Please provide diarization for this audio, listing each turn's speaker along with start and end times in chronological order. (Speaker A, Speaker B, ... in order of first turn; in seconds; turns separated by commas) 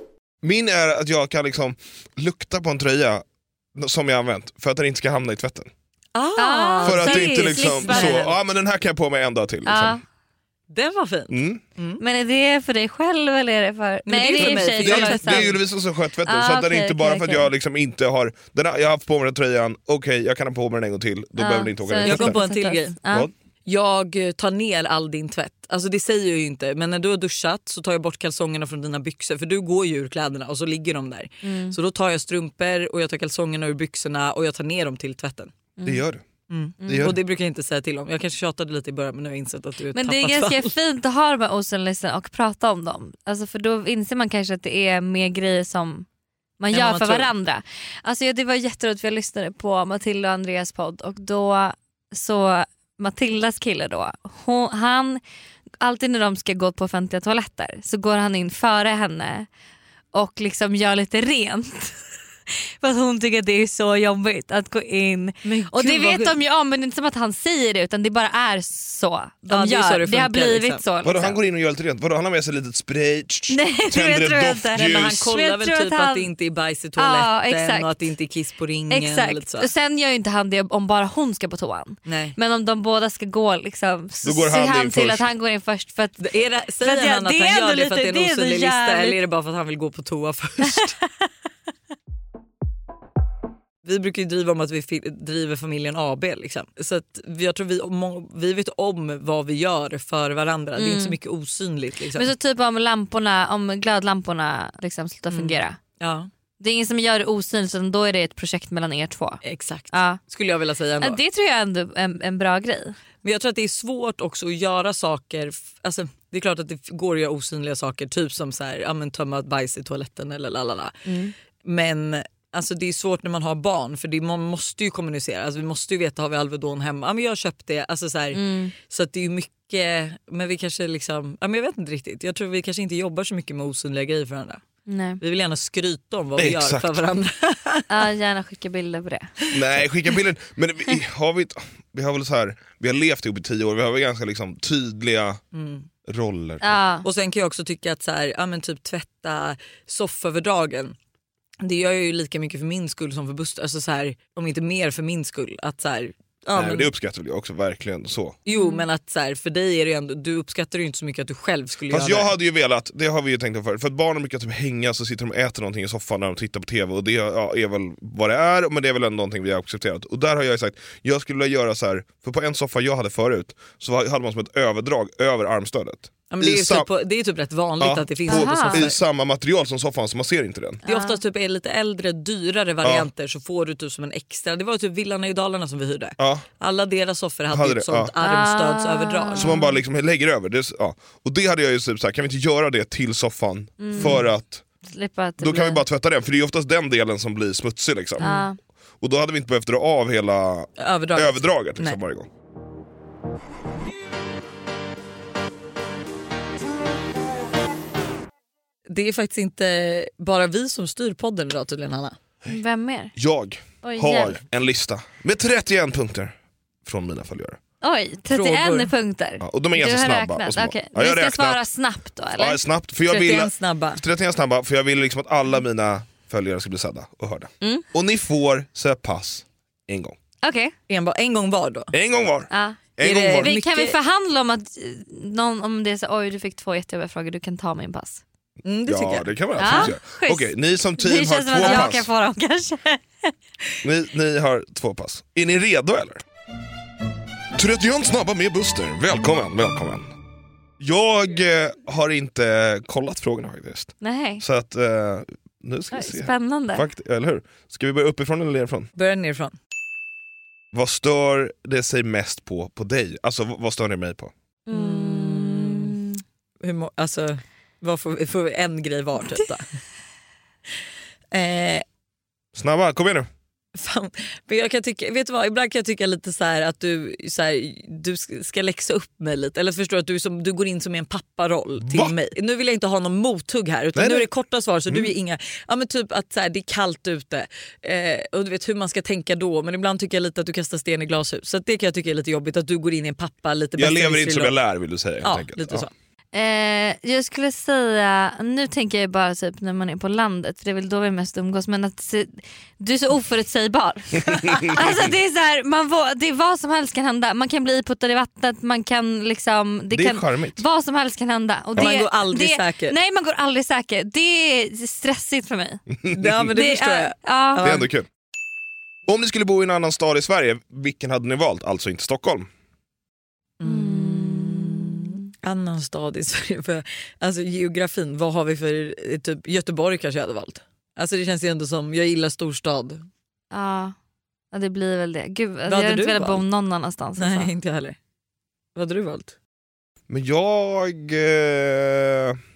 Speaker A: 0.4-3.2, Speaker A: 3.8-5.7, Speaker B: 6.1-8.3, Speaker C: 6.4-8.3, Speaker A: 6.8-10.0, Speaker C: 9.7-10.0, Speaker B: 10.7-12.0, Speaker A: 11.3-11.6, Speaker C: 12.0-15.6, Speaker B: 14.1-15.6, Speaker A: 14.4-22.4, Speaker C: 16.2-17.5, Speaker C: 21.4-23.3, Speaker B: 22.1-22.9, Speaker B: 23.6-35.5, Speaker C: 31.4-31.8, Speaker C: 35.8-36.0, Speaker A: 35.9-36.2, Speaker B: 36.5-40.7, Speaker C: 36.8-37.1, Speaker A: 36.9-37.2, Speaker C: 39.9-46.1, Speaker C: 46.6-55.2, Speaker B: 46.7-47.3, Speaker C: 55.8-59.5, Speaker C: 60.1-62.0, Speaker C: 62.5-71.4, Speaker B: 65.4-66.4, Speaker B: 69.5-70.8, Speaker A: 71.0-75.2, Speaker C: 73.5-76.3, Speaker B: 74.8-79.7, Speaker C: 77.0-77.9, Speaker C: 78.9-89.2, Speaker B: 82.1-82.4, Speaker A: 84.2-85.3, Speaker B: 86.2-91.0, Speaker C: 90.8-91.1, Speaker B: 93.8-102.3, Speaker C: 100.8-101.2, Speaker C: 102.1-105.8, Speaker B: 105.3-106.3, Speaker C: 106.6-110.2, Speaker B: 109.4-111.2, Speaker C: 111.0-113.0, Speaker B: 113.2-121.0, Speaker C: 121.1-121.3, Speaker B: 121.6-134.6, Speaker C: 128.3-128.7, Speaker C: 134.9-135.2, Speaker B: 135.2-137.9, Speaker A: 136.4-136.9, Speaker C: 137.9-139.3, Speaker A: 139.5-145.4, Speaker B: 145.5-145.9, Speaker A: 146.1-146.8, Speaker C: 146.6-147.1, Speaker B: 147.0-150.9, Speaker B: 151.6-156.9, Speaker A: 156.5-158.4, Speaker B: 158.4-162.3, Speaker C: 158.5-158.8, Speaker A: 161.9-176.9, Speaker B: 176.3-178.9, Speaker A: 177.8-180.8, Speaker C: 178.3-178.8, Speaker C: 180.8-181.2, Speaker B: 180.8-189.5, Speaker A: 182.8-183.1, Speaker A: 186.2-186.4, Speaker A: 187.5-188.1, Speaker C: 188.2-189.8, Speaker A: 189.4-194.6, Speaker C: 193.8-194.2, Speaker B: 194.0-194.2, Speaker C: 194.9-195.8, Speaker A: 195.4-198.3, Speaker B: 198.2-198.4, Speaker C: 198.2-198.6, Speaker A: 199.0-202.3, Speaker B: 200.8-202.0, Speaker B: 208.9-212.2, Speaker C: 212.4-213.1, Speaker A: 213.2-217.6, Speaker C: 213.8-214.4, Speaker C: 217.8-222.6, Speaker B: 218.3-218.9, Speaker A: 219.4-221.6, Speaker A: 222.4-230.2, Speaker B: 223.1-224.0, Speaker C: 230.4-230.7, Speaker B: 230.9-231.9, Speaker A: 231.9-233.5, Speaker C: 232.5-232.8, Speaker B: 233.0-234.0, Speaker C: 233.4-238.2, Speaker B: 238.6-239.9, Speaker A: 238.9-242.1, Speaker C: 239.6-243.3, Speaker A: 243.8-246.2, Speaker A: 247.6-250.1, Speaker A: 250.8-258.9, Speaker C: 254.0-254.4, Speaker C: 255.9-256.9, Speaker B: 258.9-259.6, Speaker A: 260.7-264.3, Speaker C: 264.7-266.2, Speaker B: 264.7-266.0, Speaker B: 266.6-269.6, Speaker B: 271.3-271.9, Speaker A: 272.5-273.3, Speaker B: 273.8-294.6, Speaker A: 281.8-282.1, Speaker A: 283.9-284.3, Speaker A: 284.9-285.1, Speaker A: 293.8-295.9, Speaker B: 295.2-295.9, Speaker C: 296.3-315.9, Speaker A: 304.3-305.1, Speaker A: 309.9-310.6, Speaker B: 311.8-313.0, Speaker A: 316.0-316.4, Speaker B: 316.1-317.9, Speaker C: 316.5-317.6, Speaker A: 317.6-318.1, Speaker A: 319.1-322.5, Speaker B: 323.6-333.1, Speaker C: 323.6-325.1, Speaker C: 333.5-333.9, Speaker C: 334.5-337.5, Speaker B: 335.7-336.4, Speaker B: 337.2-338.0, Speaker B: 338.8-339.4, Speaker A: 340.1-342.4